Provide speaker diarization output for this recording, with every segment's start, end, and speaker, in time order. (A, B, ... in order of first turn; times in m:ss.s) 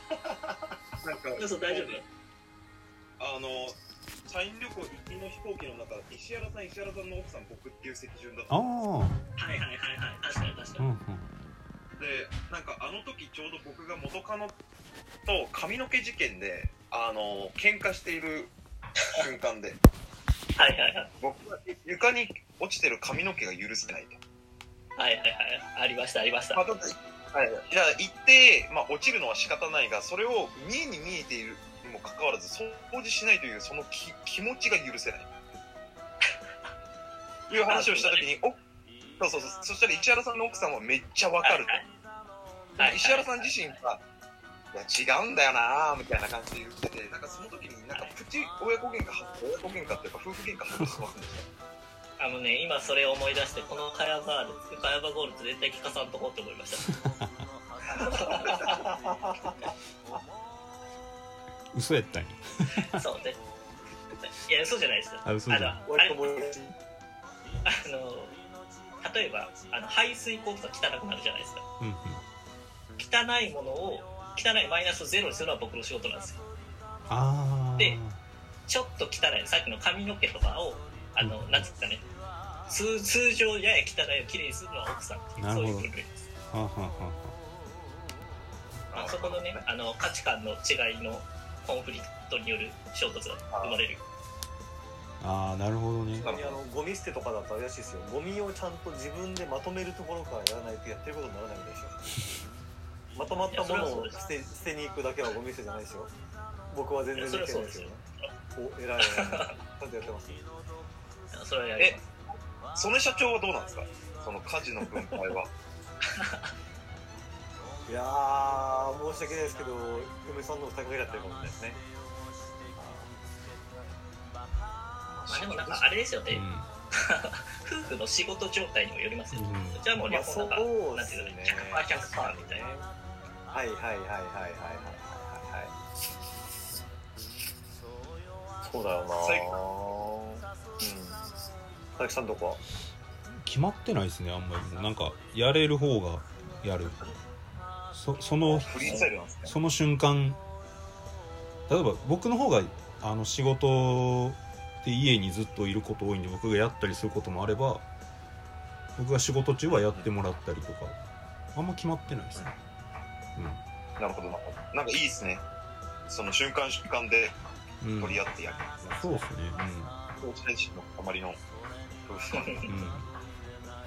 0:01.0-0:02.0 A
0:01.4-0:02.0 B
0:03.2-0:08.7 A
0:08.5-0:09.2 C
0:09.4-0:10.8 B
0:10.8-0:11.3 C
0:12.0-0:14.6 A
0:15.2-0:18.5 A
0:19.1-0:19.8 A
0:20.6-0:21.1 B
0:21.2-0:24.2 A
0:25.0-0:26.6 B
0:26.5-0:35.3 A
0:37.5-0:38.6 A
0:37.6-0:38.2 B
0:39.2-0:41.8 A
0:41.4-0:41.8 B
0:42.8-0:43.5 B
0:42.8-0:44.0 A
0:44.7-0:51.4 A
0:52.2-0:56.9 B
0:56.9-0:57.3 C
0:57.9-0:58.7 B
0:58.3-0:59.5 D
1:01.7-1:03.0 C
1:02.8-1:03.4 B
1:04.3-1:06.3 B
1:05.2-1:05.8 C
1:05.8-1:06.7 D
1:07.6-1:08.4 B
1:09.0-1:11.6 B
1:11.8-1:12.2 C
1:13.0-1:16.4 B
1:17.1-1:18.2 C
1:18.7-1:22.0 B
1:21.2-1:21.6 C
1:22.7-1:26.1 B
1:25.4-1:25.9 C
1:26.5-1:27.3 C
1:28.9-1:29.6 A
1:28.9-1:34.0 B
1:33.5-1:33.8 A
1:35.2-1:36.3 C
1:36.2-1:36.6 A
1:36.2-1:42.0 D
1:43.1-1:46.1 D
1:43.5-1:44.2 B
1:46.7-1:48.0 D
1:47.2-1:48.3 B
1:48.5-1:50.4 D
1:49.0-1:49.5 B
1:51.3-1:52.0 B
1:52.7-1:55.5 A
1:56.1-1:56.5 B
1:57.9-2:01.8 D
2:02.8-2:03.1 D
2:05.1-2:05.8 A
2:05.3-2:12.6 B
2:06.3-2:06.7 C
2:09.3-2:09.8 C
2:10.1-2:12.9 D
2:13.5-2:15.7 D
2:18.6-2:21.2 D
2:19.2-2:19.5 A
2:22.0-2:22.6 D
2:23.4-2:27.0 C
2:27.9-2:30.4 C
2:28.4-2:29.5 A
2:28.8-2:29.1 D
2:31.7-2:37.8 C
2:39.0-2:41.0 C
2:39.8-2:40.0 A
2:41.5-2:42.5 C
2:43.4-2:43.6 C
2:44.0-2:45.4 A
2:46.1-2:47.3 A
2:47.8-2:48.2 C
2:48.0-2:49.1 A
2:49.0-2:49.9 C
2:50.2-2:51.4 A
2:52.1-2:52.6 A
2:52.3-2:52.7 B
2:52.7-2:53.1 C